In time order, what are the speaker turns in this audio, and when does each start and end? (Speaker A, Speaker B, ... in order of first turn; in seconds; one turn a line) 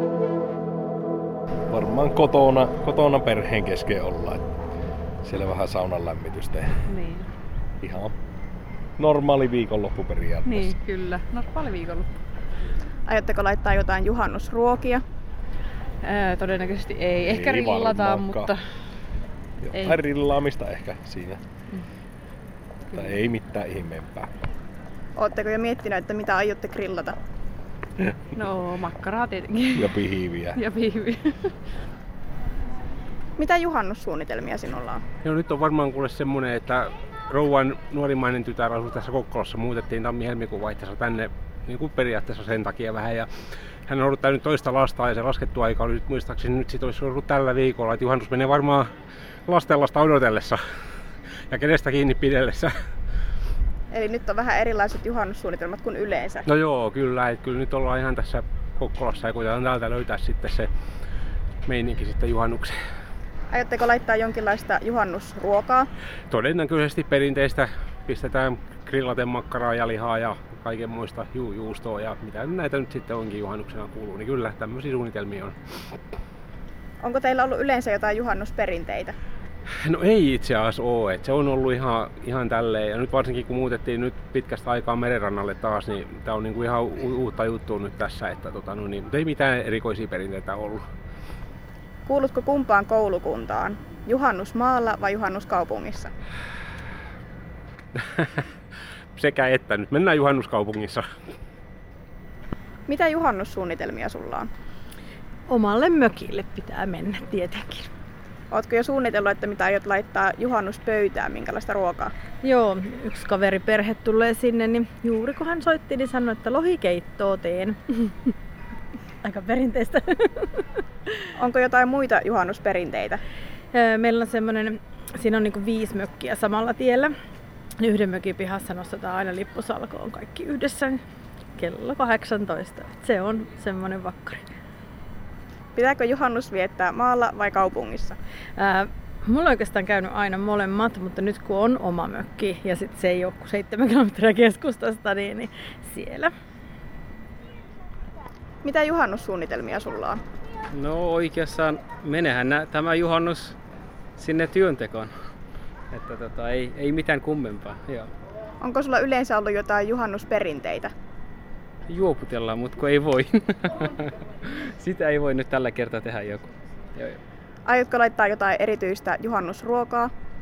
Speaker A: 1.7-4.4
Speaker A: 5.2-6.8
Speaker B: 6.9-7.3
Speaker A: 7.8-8.1
Speaker A: 9.0-10.8
Speaker B: 10.5-12.1
Speaker C: 13.1-15.0
Speaker B: 16.0-18.6
Speaker A: 17.2-18.5
Speaker A: 19.6-21.4
Speaker A: 22.9-24.3
Speaker C: 25.2-27.2
Speaker B: 28.4-30.0
Speaker A: 29.7-30.6
Speaker B: 30.5-31.5
Speaker C: 33.4-35.0
Speaker D: 35.2-43.3
Speaker D: 43.9-48.9
Speaker D: 49.5-50.6
Speaker D: 51.5-52.7
Speaker C: 53.9-56.5
Speaker D: 56.5-60.7
Speaker D: 61.7-62.8
Speaker C: 63.5-65.9
Speaker D: 66.3-75.5
Speaker C: 77.0-79.2
Speaker D: 79.9-90.8
Speaker C: 92.1-96.1
Speaker D: 98.0-98.4
Speaker D: 99.2-101.1
Speaker C: 102.9-104.5
Speaker E: 105.5-107.9
Speaker C: 108.5-112.1
Speaker E: 112.4-118.1
Speaker E: 119.2-120.6
Speaker C: 121.4-123.2
Speaker E: 123.7-127.1
Speaker E: 127.8-131.0
Speaker E: 131.6-134.4
Speaker C: 135.8-138.2
Speaker E: 138.6-146.3
Speaker C: 148.6-150.2
Speaker F: 150.7-153.6
Speaker F: 154.2-155.1
Speaker F: 155.9-158.1
Speaker C: 158.6-160.9
Speaker F: 161.9-167.2
Speaker C: 167.7-170.1